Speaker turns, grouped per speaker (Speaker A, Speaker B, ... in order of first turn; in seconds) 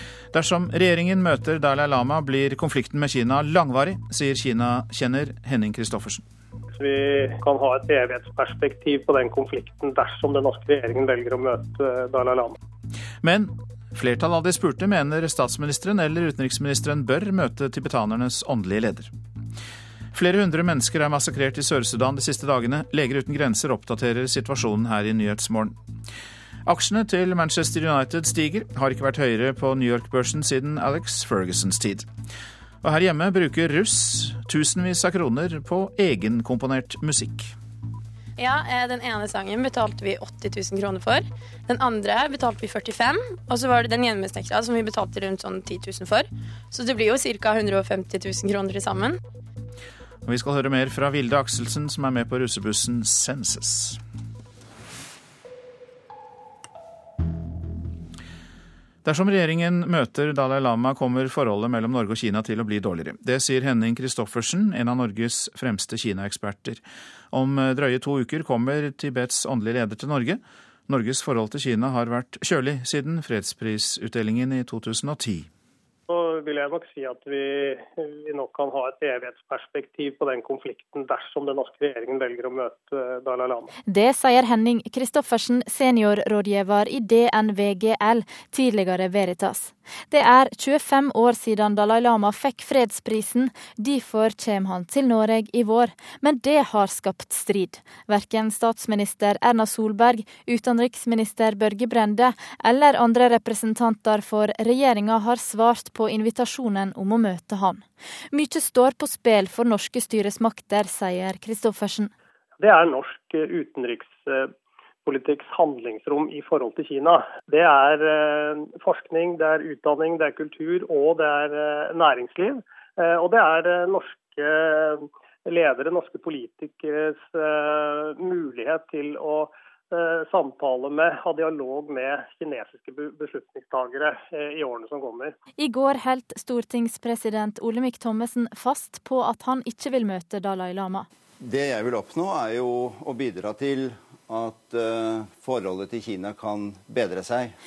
Speaker A: 0.3-6.2, 13.2-19.1, 20.1-25.8, 26.6-32.1, 32.8-37.5, 50.2-54.0, 59.0-75.5
Speaker B: 6.8-12.6, 76.1-83.7, 112.6-114.5, 115.0-135.3
Speaker C: 38.4-49.2
Speaker D: 83.8-112.1, 135.6-141.1
Speaker E: 141.4-147.5